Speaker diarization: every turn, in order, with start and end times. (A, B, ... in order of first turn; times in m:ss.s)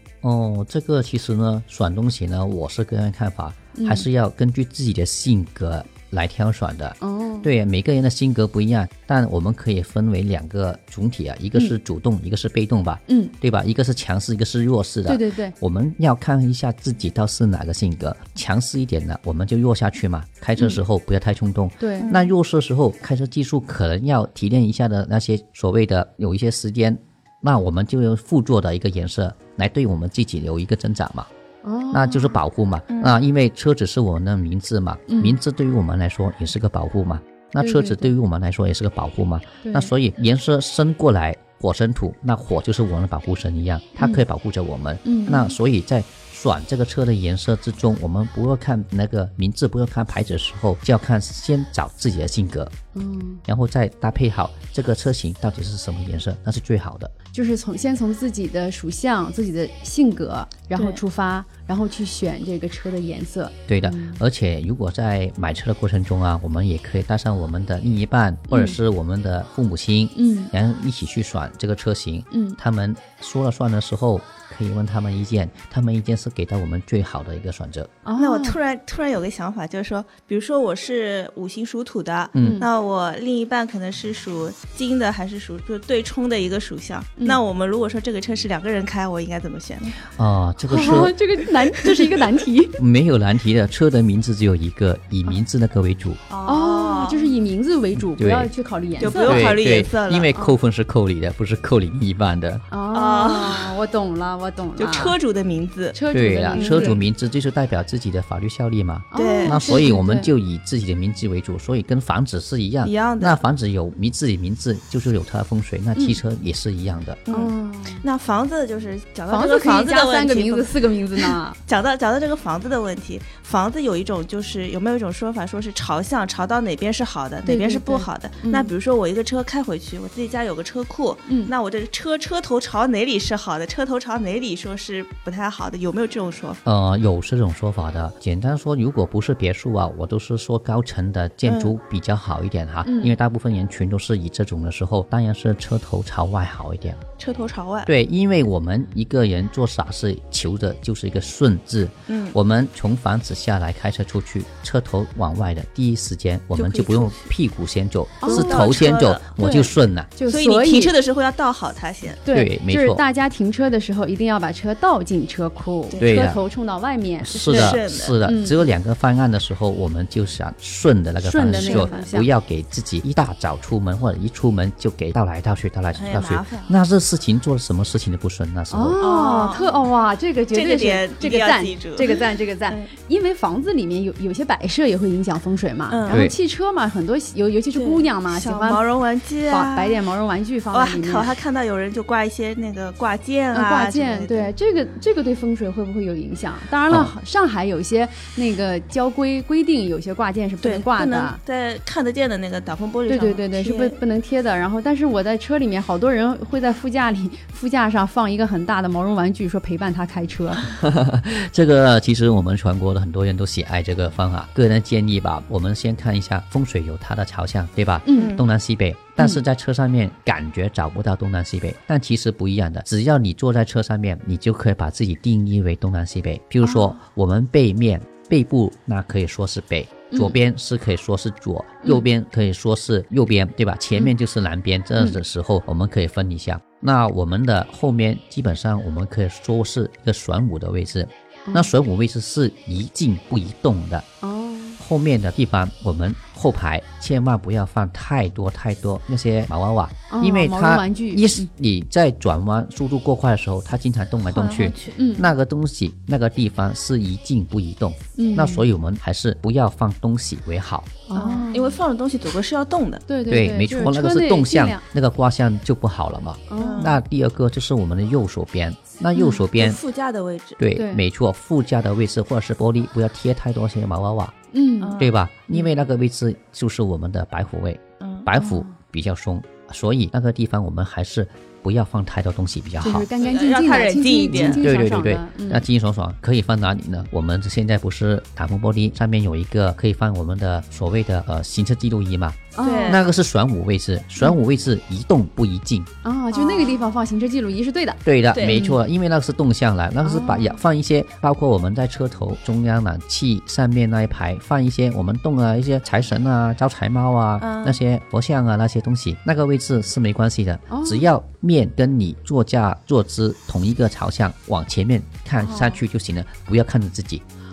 0:00.2-0:31.3 A
0:03.7-0:04.0 B
0:07.0-0:07.5 B
0:13.1-0:13.3 B
0:15.1-0:15.5 B
0:21.8-0:22.2 B
0:22.0-0:22.3 C
0:31.6-0:32.4 B
0:31.9-0:52.7 A
0:32.9-0:33.2 C
0:35.1-0:35.4 B
0:37.6-0:38.1 B
0:39.6-0:39.9 B
0:44.0-0:44.2 B
0:45.0-0:45.5 B
0:52.9-0:53.4 B
0:53.4-0:57.1 A
0:57.3-1:04.2 B
1:00.8-1:01.0 C
1:03.7-1:17.9 A
1:08.5-1:08.8 B
1:10.2-1:10.5 B
1:12.3-1:12.6 B
1:18.0-1:18.6 B
1:18.2-1:30.0 C
1:22.3-1:22.6 A
1:22.4-1:22.7 B
1:30.1-1:31.1 A
1:30.7-1:32.8 B
1:32.8-1:36.2 A
1:36.3-1:37.3 C
1:36.4-1:39.6 B
1:38.0-1:38.5 A
1:39.0-1:40.3 C
1:39.2-1:42.6 A
1:42.7-1:45.2 B
1:42.9-1:43.8 C
1:44.8-1:46.0 C
1:45.9-1:47.0 B
1:46.1-1:57.2 A
1:46.5-1:47.0 C
1:49.1-1:50.3 B
1:49.1-1:49.8 C
1:52.8-1:53.4 C
1:56.0-1:56.2 B
1:57.3-2:16.6 C
1:57.3-1:58.0 B
1:59.3-2:01.6 B
2:07.4-2:08.7 B
2:11.3-2:11.5 B
2:16.6-2:27.0 A
2:21.4-2:21.7 C
2:22.8-2:23.1 B
2:27.2-2:27.9 C
2:27.8-2:40.1 A
2:32.1-2:32.4 C
2:36.5-2:37.3 C
2:38.2-2:38.8 B
2:38.2-2:39.4 C
2:39.4-2:40.9 B
2:40.3-2:42.2 C
2:42.2-2:48.6 B
2:42.3-2:43.0 A
2:45.9-2:46.2 C
2:46.0-2:46.4 A
2:47.2-2:59.0 A
2:47.3-2:48.2 C
2:51.2-2:52.3 B
2:51.5-2:51.9 C
2:55.9-2:56.7 C
2:58.7-3:08.8 B
2:59.0-2:59.7 C
3:00.5-3:02.9 C
3:05.9-3:06.3 C
3:06.1-3:06.4 A
3:07.7-3:10.0 C
3:09.5-3:11.3 B
3:10.7-3:14.5 C
3:13.5-3:21.4 B
3:16.9-3:17.1 A
3:20.6-3:24.0 C
3:23.1-3:30.7 B
3:30.6-4:04.0 A
3:38.0-3:38.3 B
3:38.1-3:38.5 C
3:46.6-3:47.0 B
3:50.1-3:50.4 B
4:04.2-4:04.8 B
4:04.8-4:21.0 A
4:10.1-4:11.5 B
4:14.3-4:15.0 C
4:15.0-4:15.3 B
4:18.2-4:18.7 B
4:21.1-4:21.8 B
4:21.1-4:23.0 C
4:23.1-4:24.8 B
4:23.3-4:29.8 A
4:26.5-4:27.0 B
4:26.6-4:27.0 C
4:29.1-4:29.4 B
4:29.5-4:30.6 C
4:30.6-4:34.3 A
4:30.8-4:31.0 B
4:34.5-4:35.0 B
4:34.8-4:35.7 C
4:35.0-4:43.1 A
4:38.0-4:38.2 C
4:38.4-4:38.8 B
4:42.8-4:45.6 B
4:43.2-4:44.6 C
4:44.5-4:55.9 A
4:52.6-4:53.0 B
4:52.6-4:53.0 C
4:56.0-4:58.8 B
4:56.3-4:56.9 C
4:58.0-5:17.2 A
4:58.3-4:58.7 C
5:00.0-5:00.6 B
5:07.4-5:07.8 C
5:10.7-5:11.1 B
5:15.4-5:15.8 B